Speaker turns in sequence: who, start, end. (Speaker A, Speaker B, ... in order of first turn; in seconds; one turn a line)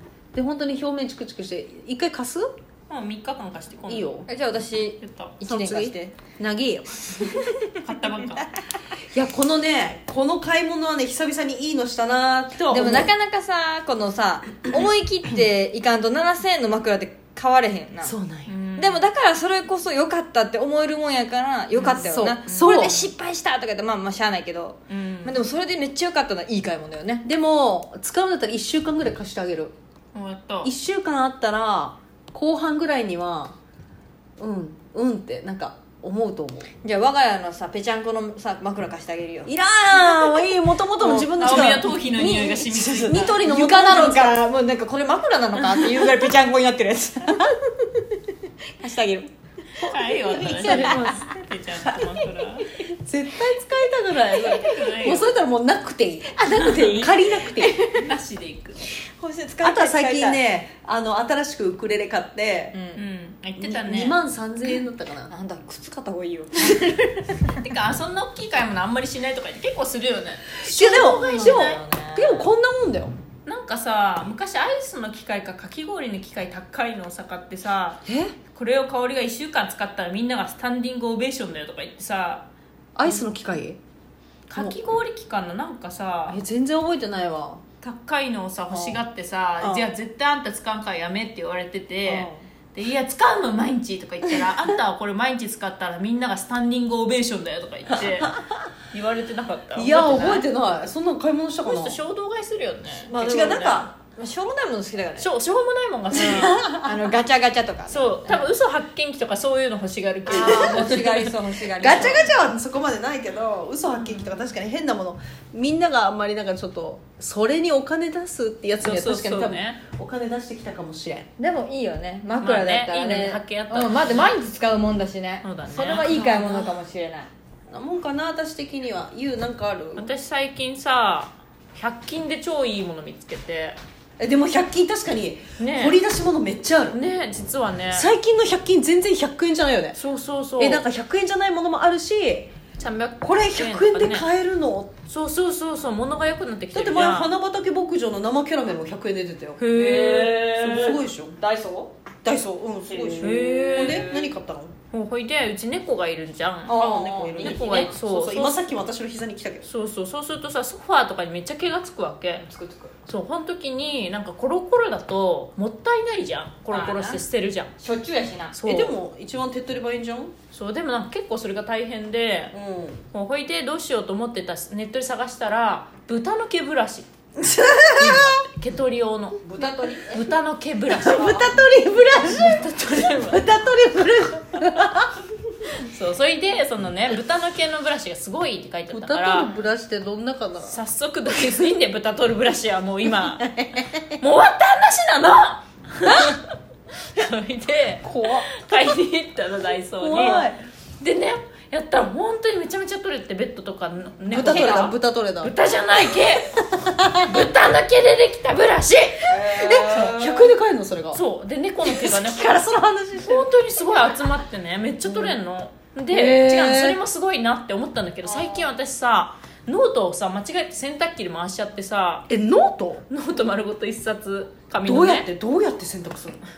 Speaker A: 0.3-2.5
Speaker B: 2.9-4.1
Speaker A: 3.9-4.3
Speaker C: 4.3-6.2
Speaker B: 5.0-5.4
Speaker A: 5.4-7.4
Speaker B: 7.8-8.5
Speaker A: 9.1-13.1
Speaker C: 12.7-18.1
Speaker A: 18.0-18.5
Speaker B: 18.5-19.1
Speaker C: 18.8-27.2
Speaker B: 21.8-22.8
Speaker A: 21.9-23.1
Speaker B: 24.9-25.5
Speaker A: 27.2-29.7
Speaker B: 30.1-30.7
Speaker A: 30.6-33.6
Speaker A: 34.4-36.7
Speaker C: 36.8-40.0
Speaker A: 39.5-41.9
Speaker C: 41.0-48.0
Speaker B: 41.3-43.3
Speaker A: 43.0-44.4
Speaker C: 48.8-49.3
Speaker B: 49.8-52.7
Speaker C: 50.2-51.2
Speaker A: 50.4-51.1
Speaker A: 52.9-57.8
Speaker B: 54.1-55.3
Speaker C: 56.5-57.1
Speaker B: 56.5-58.8
Speaker C: 59.1-60.4
Speaker A: 59.6-62.7
Speaker C: 62.7-63.0
Speaker B: 62.9-64.2
Speaker A: 63.6-65.3
Speaker C: 65.3-67.5
Speaker B: 67.5-71.8
Speaker A: 70.6-73.1
Speaker C: 70.9-72.5
Speaker B: 73.5-82.5
Speaker A: 78.0-78.3
Speaker A: 83.0-83.8
Speaker B: 84.5-86.4
Speaker A: 86.3-87.6
Speaker B: 87.8-98.3
Speaker C: 88.7-89.0
Speaker C: 92.0-92.4
Speaker A: 97.9-98.3
Speaker B: 98.9-100.5
Speaker A: 99.7-102.0
Speaker B: 101.6-103.8
Speaker C: 103.1-105.3
Speaker A: 103.1-103.9
Speaker B: 105.2-106.7
Speaker C: 106.2-108.5
Speaker A: 106.2-106.9
Speaker B: 107.9-111.3
Speaker C: 110.2-112.3
Speaker A: 110.3-110.9
Speaker A: 111.8-121.3
Speaker B: 113.9-114.5
Speaker B: 118.8-119.8
Speaker C: 121.4-127.3
Speaker B: 122.4-124.4
Speaker B: 125.4-126.2
Speaker A: 126.0-126.8
Speaker A: 127.7-130.1
Speaker B: 129.9-133.8
Speaker A: 134.2-137.0
Speaker B: 135.6-136.0
Speaker B: 136.9-138.1
Speaker A: 137.9-140.0
Speaker B: 139.9-140.8
Speaker A: 140.6-142.5
Speaker B: 142.8-144.3
Speaker A: 143.2-144.9
Speaker B: 145.1-147.3
Speaker A: 146.7-149.6
Speaker B: 149.6-151.0
Speaker C: 149.7-151.9
Speaker A: 150.4-151.3
Speaker A: 152.2-154.7
Speaker C: 152.9-154.1
Speaker B: 153.2-154.3
Speaker B: 154.9-158.8
Speaker C: 156.7-157.9
Speaker A: 156.7-159.7
Speaker B: 159.7-162.4
Speaker C: 162.3-162.9
Speaker B: 163.1-167.7
Speaker C: 166.7-167.2
Speaker C: 167.8-168.6
Speaker B: 168.5-168.9
Speaker A: 168.6-170.3
Speaker B: 170.5-172.5
Speaker A: 172.5-173.0
Speaker B: 173.1-177.1
Speaker A: 177.4-178.4
Speaker B: 178.0-179.5
Speaker C: 179.4-180.3
Speaker B: 180.1-181.5
Speaker A: 180.9-185.1
Speaker B: 182.2-183.5
Speaker B: 185.8-189.6
Speaker A: 188.9-190.8
Speaker B: 190.6-193.5
Speaker A: 193.4-194.1
Speaker B: 194.2-196.5
Speaker B: 197.1-206.6
Speaker A: 198.0-198.5
Speaker A: 200.0-200.6
Speaker A: 204.3-205.5
Speaker C: 204.4-204.9
Speaker A: 206.8-207.3
Speaker B: 207.2-209.3
Speaker C: 209.3-210.5
Speaker A: 209.5-211.2
Speaker B: 211.1-212.7
Speaker A: 211.8-213.5
Speaker B: 213.2-222.3
Speaker A: 215.0-215.4
Speaker A: 216.1-217.0
Speaker C: 218.2-218.7
Speaker A: 222.3-223.0
Speaker B: 223.1-225.3
Speaker A: 224.8-226.4